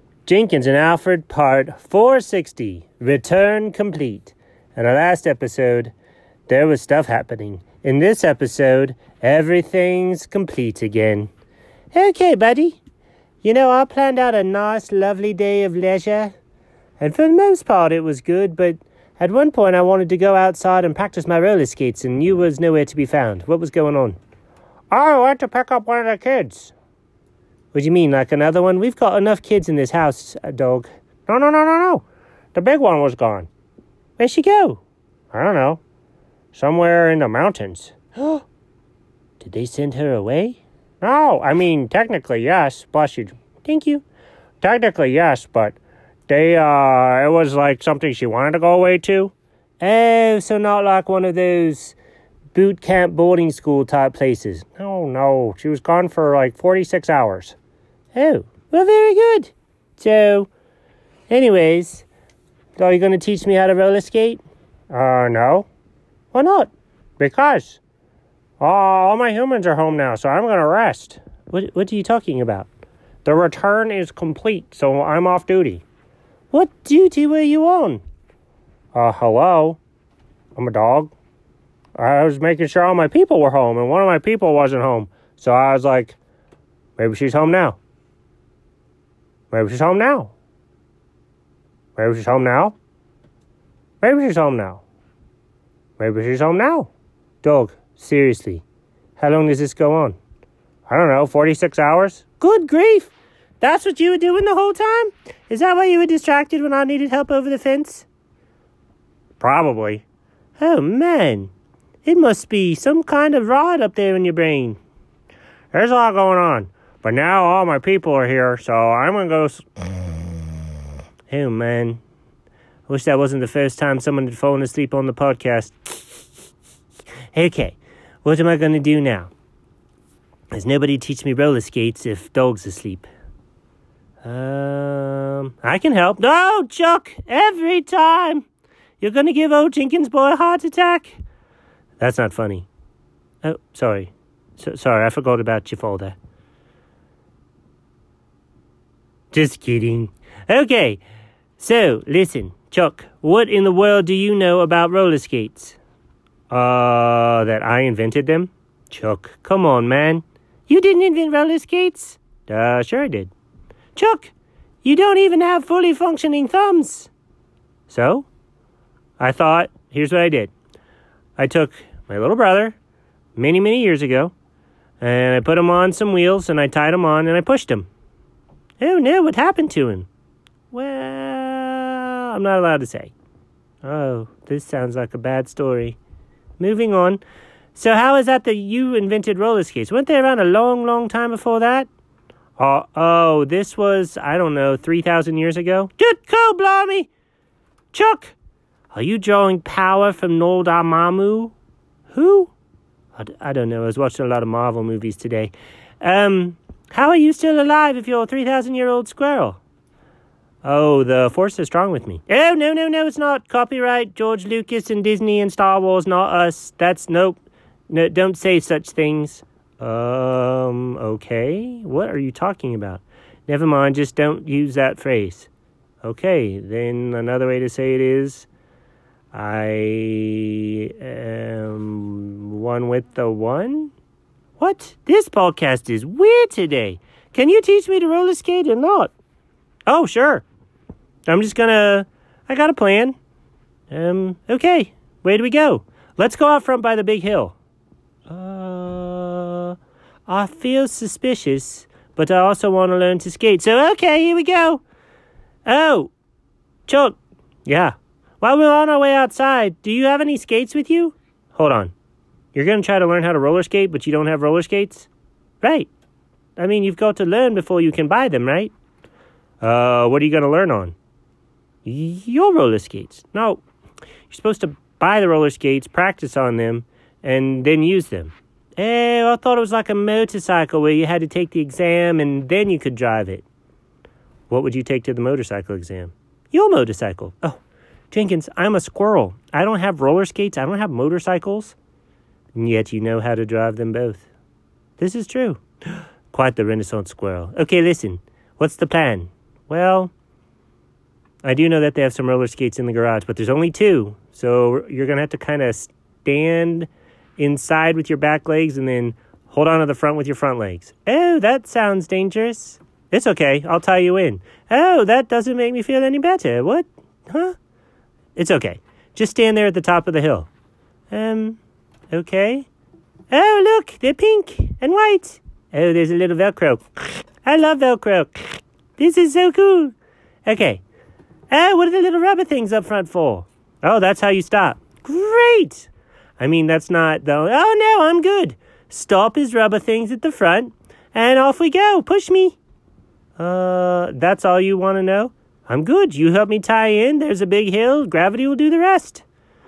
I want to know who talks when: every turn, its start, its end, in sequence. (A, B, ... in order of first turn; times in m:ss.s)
0:00.3-0:05.9 A
0:06.5-0:11.3 A
0:11.9-0:12.8 A
0:13.4-0:16.3 A
0:17.0-0:24.2 A
0:24.9-0:26.7 A
0:27.7-0:33.5 A
0:34.2-0:34.8 A
0:35.3-0:35.8 A
0:36.5-0:38.4 A
0:39.4-0:44.0 A
0:44.6-0:45.8 A
0:46.3-0:52.0 A
0:52.5-0:57.6 A
0:58.1-1:00.5 A
1:01.3-1:02.1 A
1:02.8-1:05.7 A
1:06.3-1:07.8 A
1:08.6-1:12.7 A
1:13.2-1:15.8 A
1:16.5-1:18.0 A
1:18.9-1:19.8 A
1:20.6-1:21.1 A
1:22.0-1:26.2 A
1:27.0-1:27.8 A
1:29.5-1:30.3 A
1:32.0-1:32.8 A
1:34.0-1:34.8 A
1:36.0-1:36.9 A
1:37.4-1:38.6 A
1:39.2-1:40.2 A
1:40.9-1:48.1 A
1:49.4-1:50.0 A
1:50.6-1:51.5 A
1:52.0-1:54.8 A
1:55.7-1:59.7 A
2:01.3-2:02.0 A
2:02.9-2:06.2 A
2:07.3-2:09.3 A
2:10.5-2:13.1 A
2:14.2-2:18.4 A
2:19.0-2:21.2 A
2:22.0-2:22.7 A
2:23.4-2:26.2 A
2:29.3-2:31.0 A
2:31.6-2:35.8 A
2:36.5-2:43.3 A
2:44.0-2:47.1 A
2:47.9-2:48.3 A
2:49.2-2:50.5 A
2:51.4-2:52.8 A
2:53.4-2:54.3 A
2:55.0-2:57.9 A
2:58.8-3:00.1 A
3:00.7-3:03.1 A
3:03.8-3:06.0 A
3:06.6-3:07.2 A
3:07.7-3:11.9 A
3:12.6-3:17.1 A
3:17.9-3:18.3 A
3:18.9-3:21.5 A
3:22.1-3:22.5 A
3:23.2-3:29.6 A
3:30.6-3:45.5 A
3:46.0-3:48.5 A
3:49.3-3:53.9 A
3:54.6-3:59.1 A
3:59.9-4:00.4 A
4:01.3-4:03.2 A
4:03.9-4:07.6 A
4:08.3-4:14.8 A
4:15.7-4:16.1 A
4:16.9-4:21.9 A
4:22.5-4:25.1 A
4:25.6-4:25.9 A
4:26.6-4:28.7 A
4:29.6-4:31.0 A
4:31.8-4:33.6 A
4:34.3-4:43.4 A
4:44.5-4:47.6 A
4:48.1-4:51.8 A
4:52.6-4:54.3 A
4:55.0-4:55.6 A
4:56.3-5:00.1 A
5:01.4-5:17.6 A
5:18.4-5:20.5 A
5:21.1-5:21.6 A
5:22.1-5:22.7 A
5:23.3-5:30.0 A
5:30.5-5:30.8 A
5:31.5-5:42.6 A
5:43.4-5:49.2 A